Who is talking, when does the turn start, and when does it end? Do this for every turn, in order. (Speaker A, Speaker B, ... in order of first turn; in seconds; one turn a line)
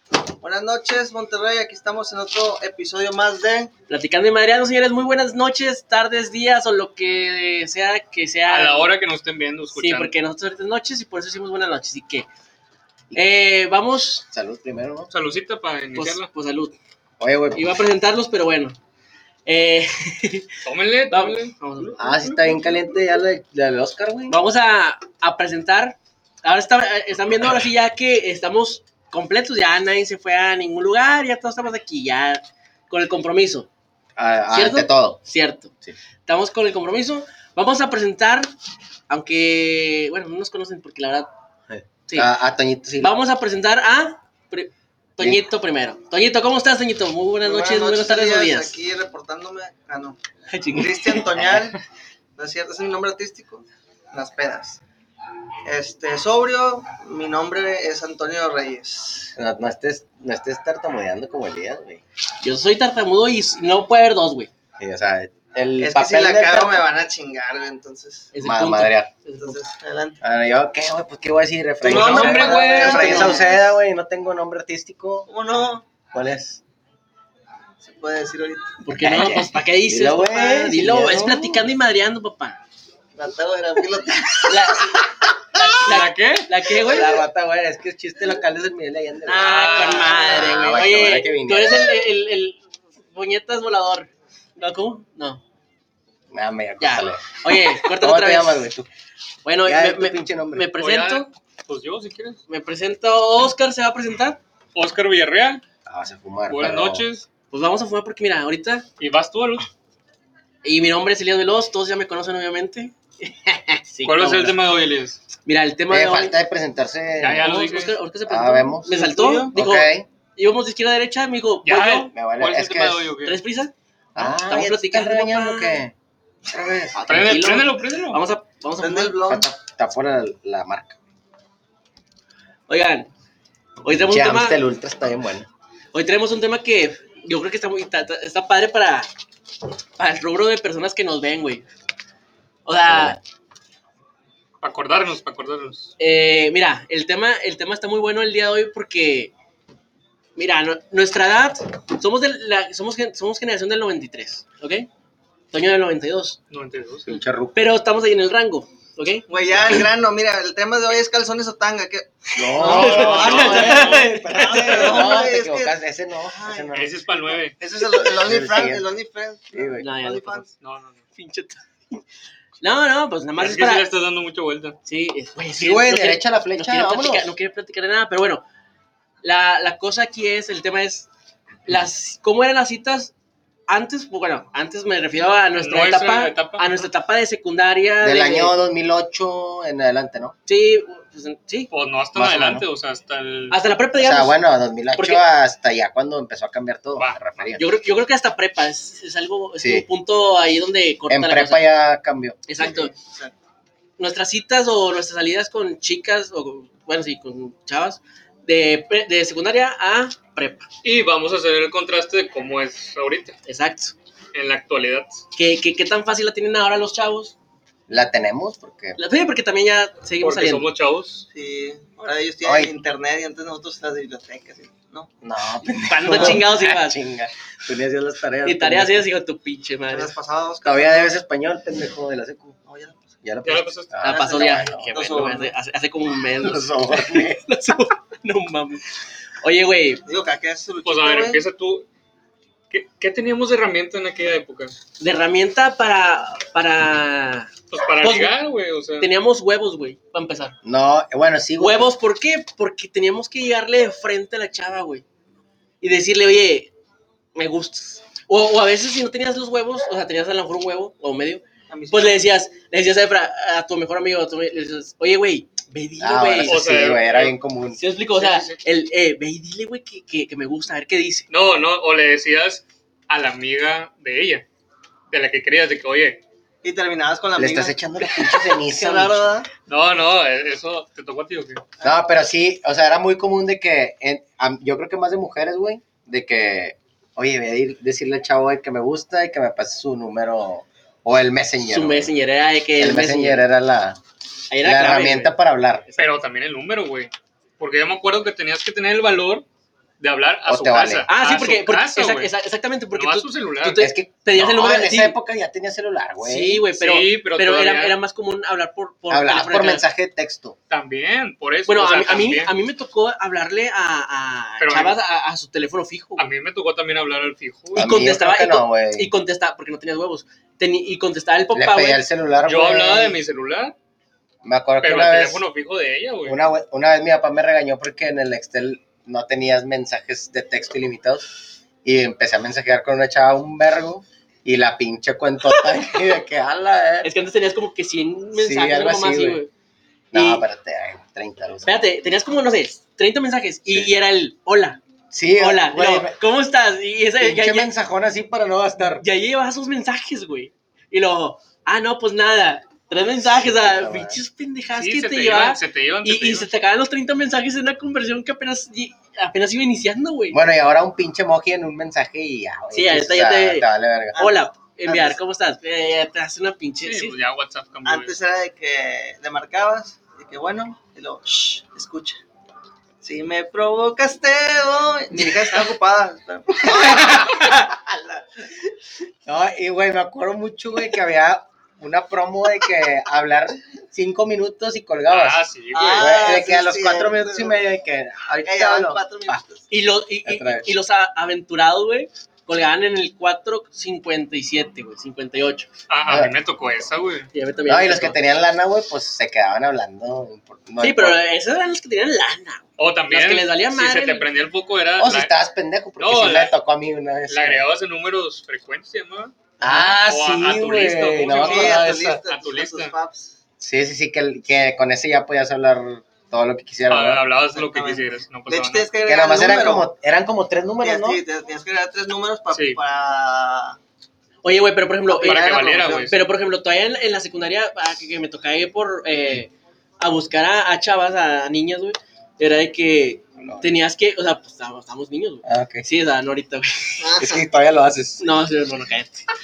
Speaker A: 0.4-3.7
Speaker B: 3.9-8.9
Speaker C: 8.5-10.1
Speaker B: 9.8-12.3
Speaker B: 13.1-14.2
Speaker D: 14.3-15.1
Speaker C: 15.1-16.3
Speaker B: 15.9-16.8
Speaker D: 17.2-17.7
Speaker B: 17.5-18.8
Speaker B: 19.4-20.5
Speaker C: 20.6-21.5
Speaker B: 21.1-22.1
Speaker D: 22.0-24.3
Speaker B: 24.3-33.7
Speaker D: 34.1-35.2
Speaker B: 34.5-35.7
Speaker B: 36.2-38.5
Speaker B: 39.1-41.3
Speaker D: 41.7-43.1
Speaker B: 43.0-48.7
Speaker A: 47.4-50.2
Speaker B: 50.5-51.3
Speaker A: 50.7-51.8
Speaker A: 52.4-54.8
Speaker A: 55.6-59.3
Speaker D: 59.4-62.0
Speaker B: 62.4-64.5
Speaker D: 64.8-66.8
Speaker A: 65.8-68.3
Speaker B: 68.3-69.7
Speaker D: 68.4-69.1
Speaker A: 69.4-70.2
Speaker D: 70.2-75.3
Speaker A: 71.8-73.7
Speaker C: 71.8-73.2
Speaker B: 72.8-73.4
Speaker A: 75.3-75.8
Speaker D: 76.1-76.6
Speaker A: 77.8-78.7
Speaker B: 78.8-82.6
Speaker D: 78.9-81.7
Speaker A: 83.1-84.7
Speaker B: 84.4-87.2
Speaker C: 85.8-86.7
Speaker D: 86.7-92.0
Speaker B: 89.2-95.4
Speaker C: 89.4-90.5
Speaker D: 96.3-98.9
Speaker B: 96.8-98.7
Speaker B: 99.4-101.3
Speaker D: 99.6-100.7
Speaker C: 100.8-102.4
Speaker B: 102.5-104.4
Speaker C: 104.7-105.6
Speaker D: 105.8-107.0
Speaker C: 106.5-107.2
Speaker B: 107.5-108.8
Speaker C: 109.0-109.7
Speaker B: 110.6-114.6
Speaker C: 114.0-115.2
Speaker B: 115.5-116.4
Speaker D: 115.9-117.7
Speaker C: 117.2-118.0
Speaker B: 117.4-122.1
Speaker D: 118.2-118.9
Speaker A: 118.9-119.5
Speaker D: 119.5-120.1
Speaker C: 121.6-123.4
Speaker D: 122.1-123.1
Speaker B: 123.2-125.8
Speaker D: 124.1-125.9
Speaker D: 126.5-127.0
Speaker B: 126.9-129.2
Speaker C: 127.1-128.2
Speaker A: 128.8-129.5
Speaker D: 129.3-131.0
Speaker B: 132.7-133.1
Speaker B: 133.8-134.6
Speaker D: 133.9-135.5
Speaker B: 135.9-139.1
Speaker B: 140.0-141.7
Speaker B: 142.7-143.2
Speaker D: 142.9-143.2
Speaker C: 144.6-145.9
Speaker B: 146.0-149.3
Speaker B: 150.3-154.9
Speaker B: 155.5-156.4
Speaker C: 156.5-157.1
Speaker D: 157.0-157.6
Speaker B: 157.5-159.2
Speaker A: 159.3-166.7
Speaker D: 162.3-167.3
Speaker B: 162.5-165.2
Speaker C: 162.6-164.1
Speaker C: 166.7-167.6
Speaker A: 167.6-170.5
Speaker D: 167.9-168.8
Speaker D: 169.5-169.9
Speaker B: 169.8-170.5
Speaker C: 170.6-171.0
Speaker B: 171.1-172.0
Speaker B: 172.6-173.9
Speaker C: 173.4-174.8
Speaker B: 174.8-178.4
Speaker D: 175.6-177.3
Speaker B: 179.2-181.1
Speaker B: 181.7-183.1
Speaker B: 183.7-188.5
Speaker C: 185.6-186.8
Speaker D: 188.0-190.3
Speaker B: 190.5-191.7
Speaker C: 191.7-193.6
Speaker D: 192.2-192.7
Speaker B: 193.5-194.4
Speaker D: 194.0-197.6
Speaker B: 194.9-195.2
Speaker C: 197.0-197.2
Speaker B: 197.6-201.7
Speaker D: 199.6-199.8
Speaker D: 201.1-202.4
Speaker B: 202.5-202.9
Speaker A: 202.6-203.3
Speaker B: 204.0-210.7
Speaker C: 210.8-213.4
Speaker B: 213.4-213.9
Speaker C: 214.3-215.2
Speaker B: 215.3-217.3
Speaker D: 217.9-219.0
Speaker B: 219.0-220.7
Speaker C: 220.2-221.2
Speaker A: 221.3-225.1
Speaker D: 222.4-222.7
Speaker D: 225.2-229.1
Speaker B: 225.8-227.0
Speaker B: 228.4-230.1
Speaker A: 229.9-231.1
Speaker D: 230.6-232.6
Speaker A: 232.7-233.1
Speaker D: 233.2-234.9
Speaker C: 233.4-233.9
Speaker A: 234.0-235.5
Speaker B: 234.0-238.8
Speaker D: 236.4-237.4
Speaker B: 239.4-240.0
Speaker A: 240.1-241.4
Speaker C: 240.8-241.8
Speaker C: 242.7-244.7
Speaker B: 245.0-248.3
Speaker C: 247.7-249.1
Speaker B: 249.0-250.6
Speaker D: 250.6-251.9
Speaker B: 251.6-255.1
Speaker B: 255.8-256.7
Speaker B: 257.3-266.6
Speaker A: 261.7-262.2
Speaker D: 266.0-267.8
Speaker C: 266.4-267.3
Speaker B: 267.8-271.2
Speaker C: 268.1-268.6
Speaker C: 271.3-274.4
Speaker C: 275.1-276.2
Speaker A: 276.6-277.8
Speaker D: 277.4-279.3
Speaker A: 278.5-279.5
Speaker C: 279.7-281.6
Speaker D: 281.8-292.1
Speaker B: 291.6-293.4
Speaker D: 292.8-294.0
Speaker B: 294.5-295.3
Speaker D: 294.6-295.8
Speaker C: 295.9-299.4
Speaker C: 300.0-302.3
Speaker D: 300.4-301.1
Speaker B: 301.1-305.2
Speaker C: 302.9-303.8
Speaker D: 303.8-306.6
Speaker B: 306.2-309.8
Speaker C: 306.8-308.0
Speaker D: 309.1-310.6
Speaker C: 310.7-312.5
Speaker B: 311.7-316.2
Speaker C: 314.6-314.9
Speaker C: 316.2-317.9
Speaker D: 317.8-319.1
Speaker B: 317.8-322.0
Speaker D: 321.5-323.2
Speaker C: 322.4-323.7
Speaker D: 324.4-325.4
Speaker C: 324.8-326.4
Speaker D: 326.2-331.3
Speaker D: 331.8-337.1
Speaker B: 337.0-339.5
Speaker D: 338.3-339.4
Speaker D: 340.1-341.7
Speaker B: 340.1-340.4
Speaker B: 341.6-344.8
Speaker D: 345.1-346.1
Speaker B: 345.3-347.7
Speaker D: 347.2-349.0
Speaker B: 349.0-360.4
Speaker D: 353.2-354.2
Speaker C: 354.8-356.5
Speaker D: 360.3-364.1
Speaker B: 362.7-367.2
Speaker A: 364.1-365.2
Speaker C: 366.8-368.2
Speaker A: 367.8-372.2
Speaker A: 373.0-378.2
Speaker D: 379.2-389.4
Speaker C: 385.1-386.2
Speaker A: 385.7-387.6
Speaker A: 388.4-389.6
Speaker B: 389.7-395.7
Speaker D: 390.2-390.7
Speaker C: 395.9-397.3
Speaker D: 396.1-396.3
Speaker B: 397.3-398.2
Speaker D: 397.7-401.2
Speaker B: 400.8-404.2
Speaker C: 402.8-405.3
Speaker D: 405.0-407.6
Speaker C: 406.0-406.5
Speaker C: 407.3-409.3
Speaker B: 409.6-410.0
Speaker D: 409.6-412.2
Speaker C: 410.0-412.9
Speaker A: 411.3-413.3
Speaker D: 413.6-417.2
Speaker C: 416.9-418.9
Speaker A: 417.5-419.9
Speaker D: 419.1-421.2
Speaker A: 420.8-423.8
Speaker C: 422.5-422.8
Speaker B: 424.4-437.1
Speaker A: 425.1-426.1
Speaker C: 425.2-426.3
Speaker D: 435.4-435.9
Speaker A: 437.0-437.4
Speaker D: 437.1-438.2
Speaker B: 438.2-439.2